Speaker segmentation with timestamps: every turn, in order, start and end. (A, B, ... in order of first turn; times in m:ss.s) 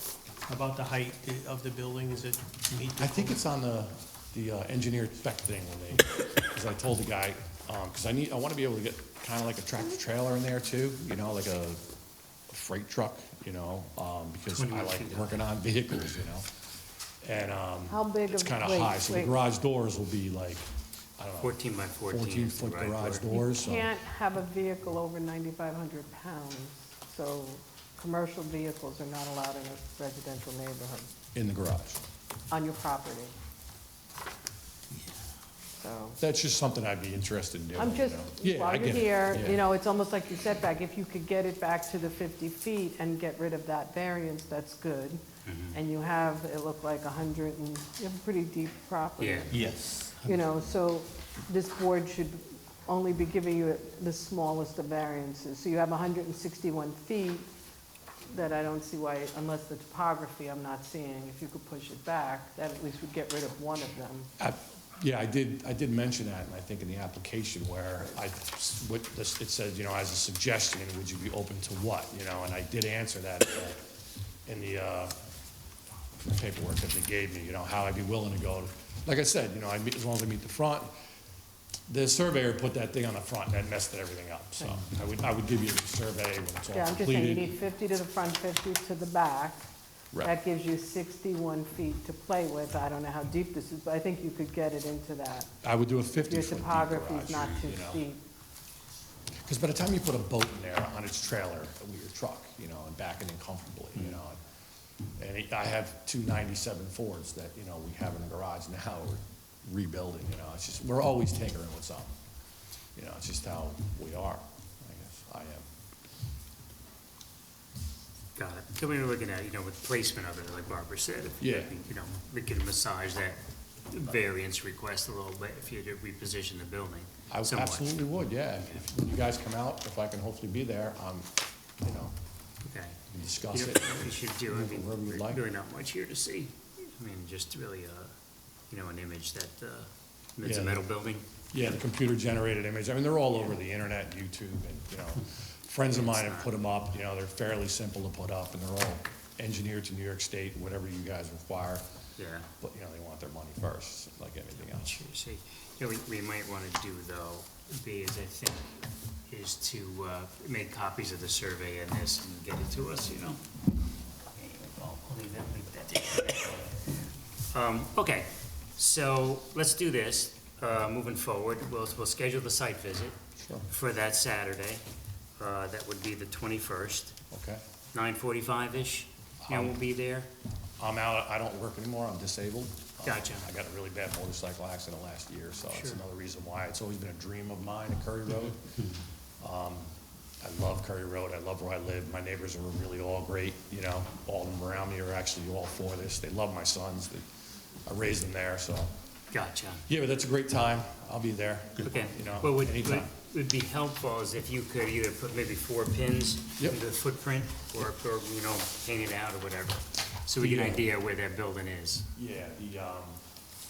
0:00.5-0:03.4 A
0:03.0-0:11.8 B
0:12.5-0:16.5 B
0:14.5-0:15.4 C
0:17.2-0:20.6 B
0:17.9-0:19.3 D
0:21.2-0:21.5 B
0:21.4-0:23.2 C
0:22.1-0:23.9 B
0:23.3-0:31.1 D
0:31.3-0:32.0 B
0:32.5-0:33.3 D
0:35.7-0:36.2 D
0:36.2-0:39.6 B
0:37.8-0:49.7 D
0:45.4-0:45.8 C
0:49.2-0:49.5 C
0:49.5-0:50.4 A
0:50.2-0:57.5 D
0:58.3-1:04.3 D
1:04.4-1:13.8 B
1:14.4-1:15.1 B
1:16.2-1:20.9 B
1:21.9-1:27.6 B
1:26.7-1:29.7 D
1:30.2-1:35.5 D
1:35.6-1:38.0 B
1:36.2-1:38.2 D
1:39.4-1:44.4 B
1:45.2-1:52.1 B
1:52.9-1:55.7 B
1:58.4-2:08.1 C
2:01.4-2:01.8 B
2:07.3-2:11.3 B
2:11.8-2:12.1 B
2:12.6-2:18.1 C
2:13.1-2:15.4 B
2:18.7-2:21.2 C
2:20.4-2:20.8 B
2:21.5-2:31.8 B
2:25.9-2:26.5 C
2:32.2-2:32.5 C
2:32.6-2:35.0 B
2:34.6-2:38.8 C
2:39.3-2:43.4 C
2:44.4-2:46.8 C
2:47.5-2:54.8 C
2:53.4-2:53.7 B
2:55.4-2:57.1 C
2:57.3-2:57.6 B
2:57.9-3:00.3 C
2:59.4-2:59.8 B
3:00.8-3:08.7 B
3:03.0-3:03.5 C
3:05.7-3:06.0 C
3:09.4-3:17.2 B
3:17.8-3:18.9 B
3:19.3-3:19.8 C
3:19.9-3:23.1 B
3:21.8-3:32.1 C
3:30.4-3:30.9 B
3:32.1-3:33.2 B